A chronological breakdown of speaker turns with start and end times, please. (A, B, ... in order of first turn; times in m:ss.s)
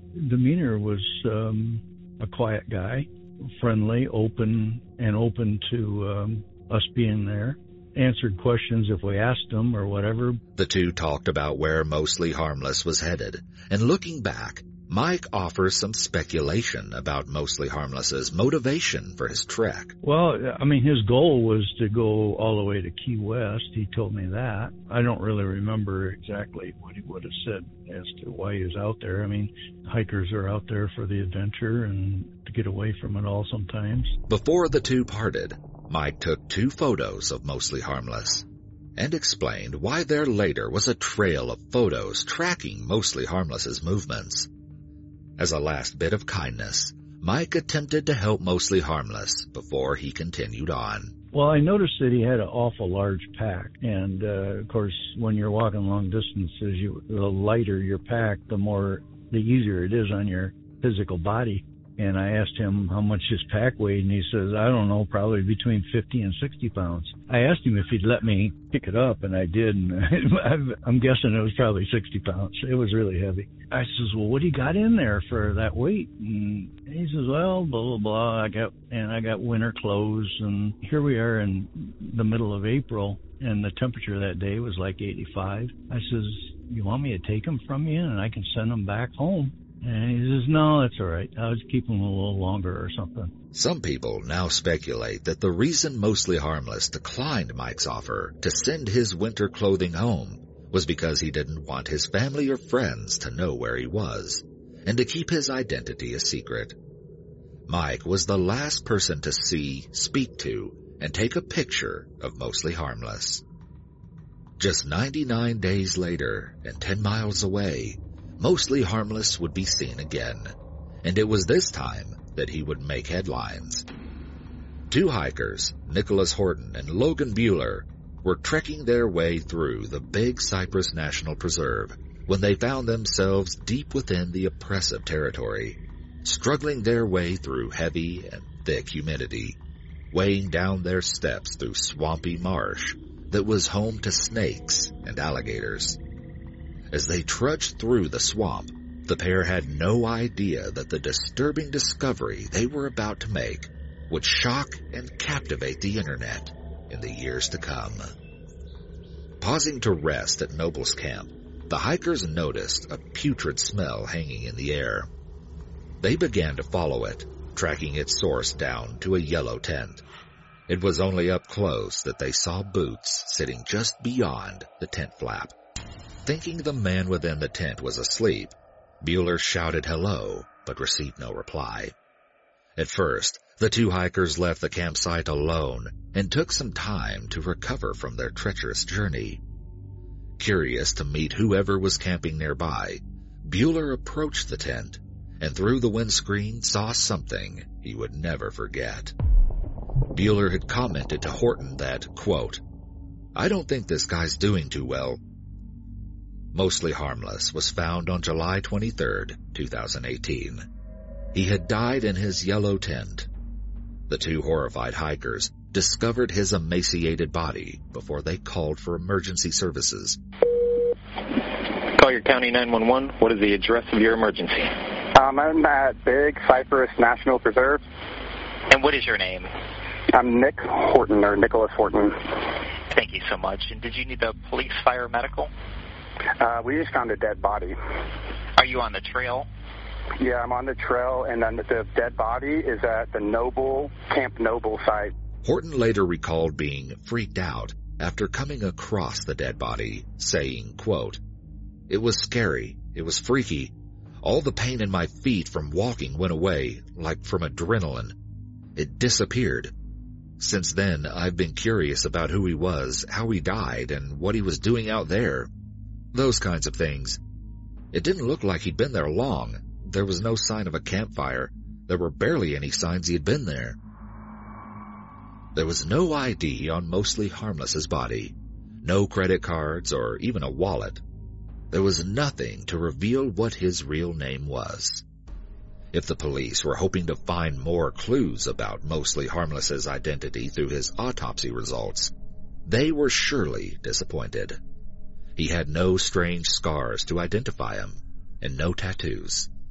0:00.1-0:10.4 A
0:10.6-0:19.9 B
0:20.0-0:34.2 A
0:34.3-0:38.4 B
0:39.0-0:44.5 B
0:45.4-0:51.1 B
0:51.3-1:33.3 A
1:33.5-1:46.8 B
1:47.7-1:53.4 B
1:54.6-2:03.8 B
2:04.9-2:19.6 B
2:20.1-2:26.0 B
2:26.9-2:38.1 B
2:39.4-2:45.1 B
2:46.0-2:50.0 B
2:50.7-2:55.5 B
2:56.2-3:01.9 B
3:02.8-3:09.4 B
3:10.4-3:19.1 B
3:20.1-3:22.6 B
3:23.3-3:25.2 B
3:26.5-3:30.6 B
3:31.3-3:33.3 B
3:34.1-3:40.2 B
3:41.8-3:44.8 C
3:45.1-3:47.8 D
3:48.7-3:49.5 C
3:50.1-3:52.5 D
3:52.9-3:55.5 C
3:56.4-3:57.8 D
3:58.6-3:59.5 C
4:00.2-4:05.1 D
4:05.4-4:11.2 B
4:11.9-4:18.1 B
4:18.8-4:19.7 B
4:20.4-4:25.5 B
4:26.1-4:27.2 B
4:27.9-4:33.8 B
4:35.5-4:41.0 B
4:41.7-4:45.0 B
4:45.9-4:52.1 B
4:52.6-4:54.6 B
4:55.4-4:59.5 B